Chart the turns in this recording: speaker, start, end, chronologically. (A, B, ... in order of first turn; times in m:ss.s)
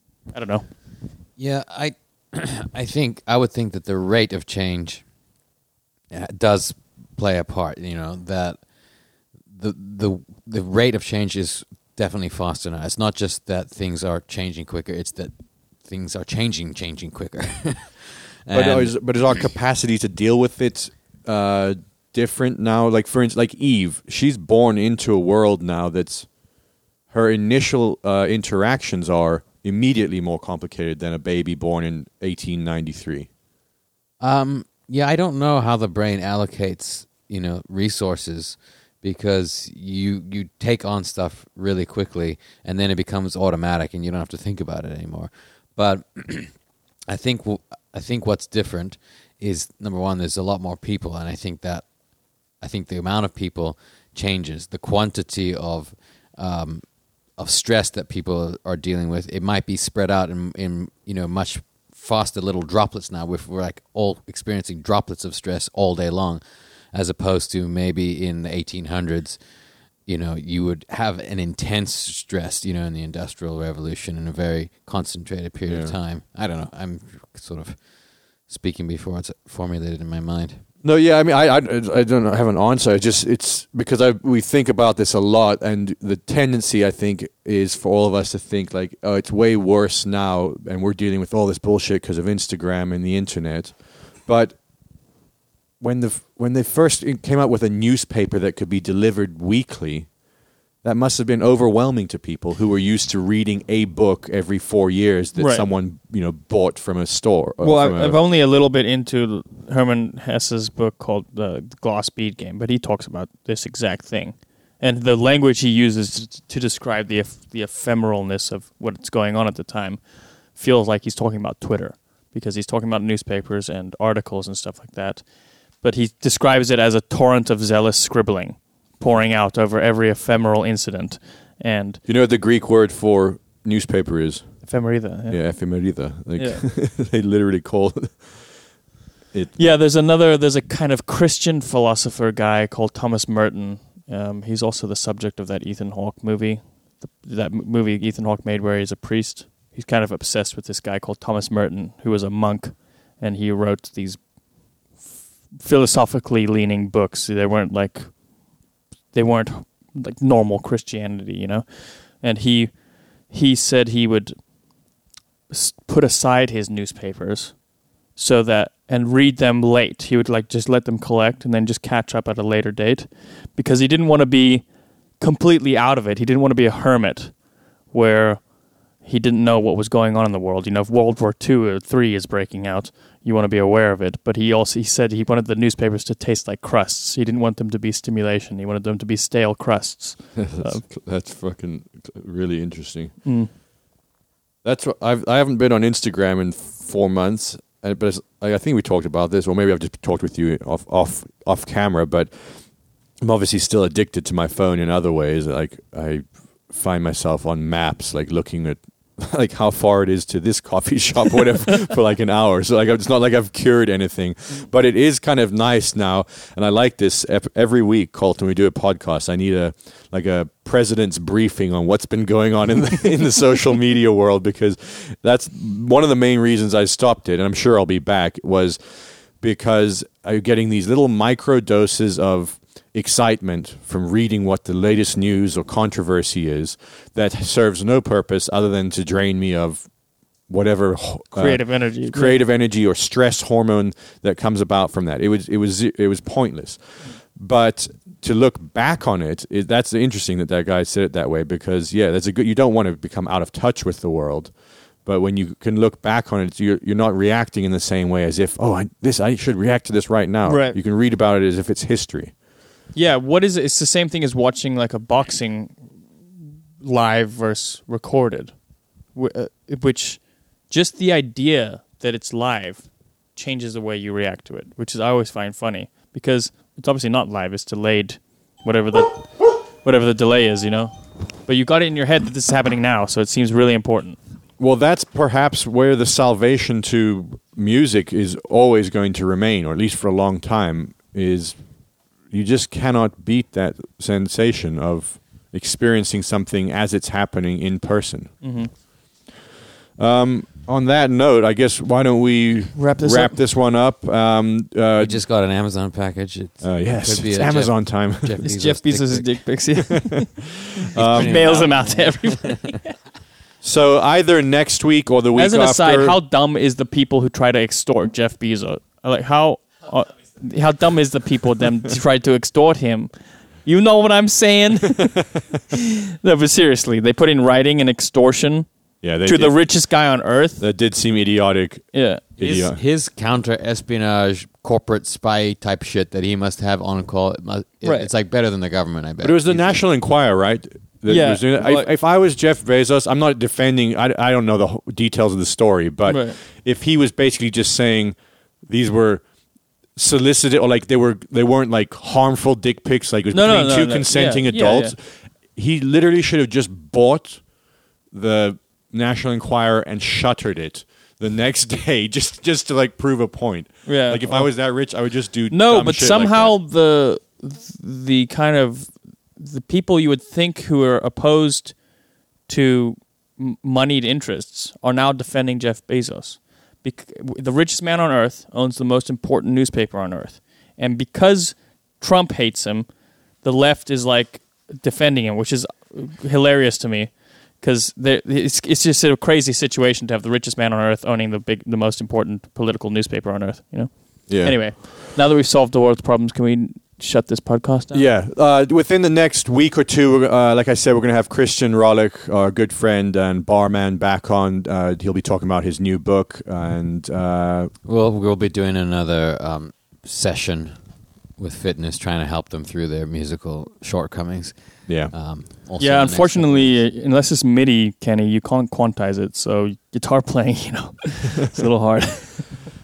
0:00.3-0:00.7 A
0:01.4-0:05.1 B
0:06.1-0:08.7 B
0:09.5-0:19.5 B
0:18.5-0:26.4 C
0:27.1-0:33.3 C
0:34.2-1:09.5 B
1:10.0-1:20.6 B
1:15.7-1:16.0 C
1:20.8-1:34.7 C
1:35.8-1:40.2 C
1:40.8-1:48.2 C
1:45.4-1:45.7 A
1:47.6-2:12.0 A
2:12.1-2:18.8 C
2:14.6-2:16.6 A
2:19.3-2:19.8 C
2:19.6-2:44.5 A
2:45.5-3:10.9 A
3:10.4-3:13.3 C
3:13.2-3:13.5 A
3:14.6-4:22.4 C
4:01.3-4:02.4 A
4:20.4-4:20.8 A
4:22.9-4:44.2 A
4:44.6-4:58.8 C
4:58.4-4:58.7 A
5:00.0-5:05.2 C
5:02.8-5:03.4 A
5:05.0-5:10.0 B
5:06.6-5:08.5 C
5:08.4-5:12.9 A
5:11.0-5:11.5 C
5:11.0-5:12.7 B
5:13.6-5:16.2 C
5:15.4-5:25.4 A
5:26.2-5:30.7 A
5:29.0-5:32.8 C
5:31.9-5:32.6 A
5:32.4-5:39.8 B
5:37.8-5:38.1 A
5:39.2-6:06.6 C
5:41.1-5:41.9 A
5:46.1-5:46.4 A
5:53.3-5:55.0 A
6:03.9-6:38.2 A
6:34.3-6:34.9 C
6:37.9-6:47.7 C
6:47.8-6:56.8 B
6:54.9-6:55.1 C
6:55.8-7:02.6 A